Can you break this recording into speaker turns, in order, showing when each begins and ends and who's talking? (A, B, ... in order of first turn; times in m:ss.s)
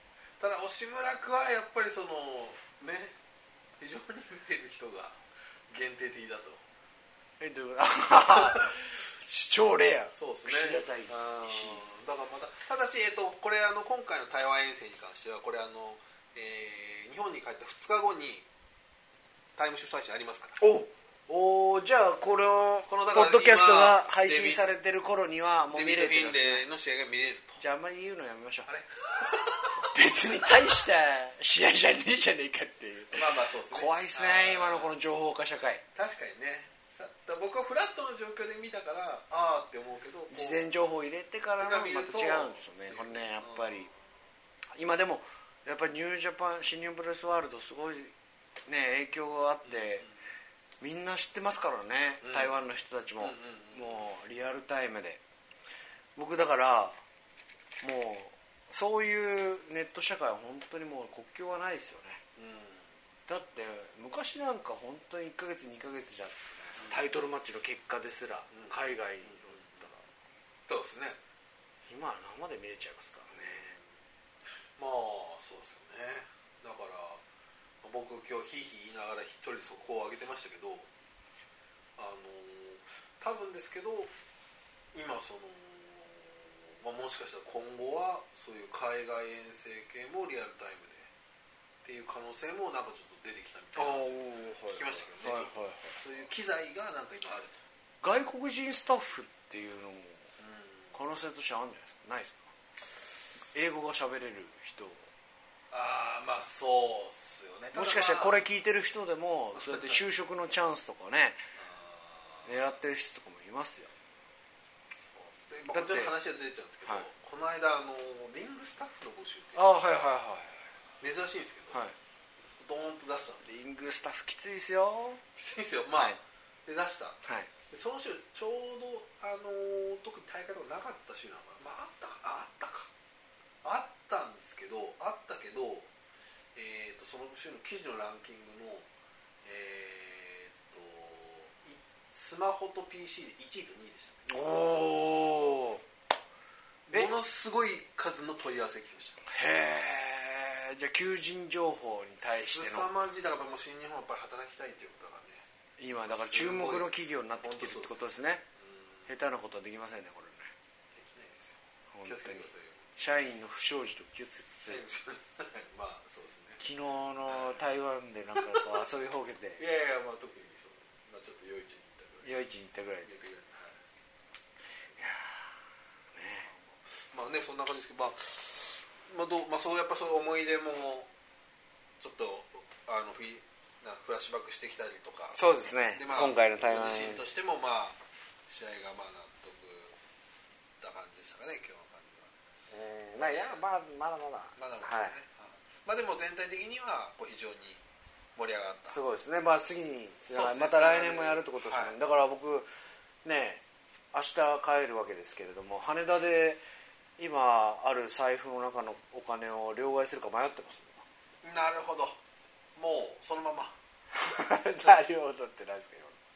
0:00.4-0:03.2 A
0:03.8-0:06.6 A
0:07.4-0:11.8 B
0:08.2-0:08.8 A
0:10.2-0:18.5 A
0:19.6-0:20.6 A
0:20.6-0:26.7 B
0:22.9-0:24.6 A
0:25.7-0:27.6 A
0:27.6-0:28.7 B
0:28.7-0:30.8 A
0:29.8-0:35.8 B
0:33.1-0:34.9 A
0:36.0-0:40.7 A
0:40.3-0:43.9 B
0:41.6-0:43.9 A
0:44.8-0:48.1 B
0:48.7-0:50.1 B
0:49.6-0:50.1 A
0:50.8-0:55.2 B
0:52.2-0:52.6 A
0:53.2-0:54.0 A
0:56.2-0:57.0 B
0:57.8-1:02.2 B
1:02.4-1:02.9 A
1:03.3-1:10.0 B
1:08.5-1:09.9 A
1:10.7-1:11.2 A
1:11.9-1:13.7 B
1:13.3-1:13.8 A
1:14.8-1:17.2 A
1:17.8-1:20.9 A
1:22.0-1:24.1 A
1:24.9-1:31.1 A
1:31.8-1:37.6 A
1:33.8-1:36.0 B
1:38.0-1:40.3 B
1:40.4-1:40.7 A
1:40.9-1:42.5 B
1:43.5-1:45.1 B
1:45.7-1:48.4 A
1:47.7-1:51.4 B
1:49.6-1:50.0 A
1:51.6-1:52.5 A
1:52.4-1:53.9 B
1:54.9-1:59.8 A
1:55.7-1:56.2 B
1:59.6-2:00.7 B
2:01.0-2:01.8 A
2:02.6-2:03.5 A
2:03.4-2:05.2 B
2:05.4-2:12.9 A
2:05.9-2:06.2 B
2:07.2-2:07.5 B
2:13.6-2:15.9 A
2:16.6-2:18.9 A
2:19.4-2:24.3 A
2:24.3-2:25.8 B
2:26.9-2:29.2 A
2:29.2-2:32.9 B
2:32.2-2:35.4 A
2:35.8-2:38.4 B
2:36.1-2:38.0 A
2:38.6-2:39.1 A
2:39.1-2:40.5 B
2:40.9-2:42.9 A
2:41.9-2:44.8 B
2:44.7-2:46.6 A
2:46.6-2:49.6 B
2:47.3-2:47.6 A
2:48.4-2:48.8 A
2:49.6-2:52.3 A
2:52.2-2:53.1 B
2:53.0-2:53.8 A
2:55.0-2:55.6 B
2:56.1-2:56.5 B
2:56.5-3:01.1 A
3:02.0-3:10.0 A
3:05.4-3:07.3 B
3:10.8-3:12.3 A
3:12.7-3:15.2 B
3:13.2-3:13.6 A
3:14.6-3:17.8 A
3:18.4-3:19.0 A
3:18.9-3:22.7 B
3:20.3-3:22.0 A
3:23.2-3:26.6 B
3:27.2-3:31.0 B
3:31.4-3:32.2 A
3:32.8-3:33.8 A
3:34.1-3:36.2 B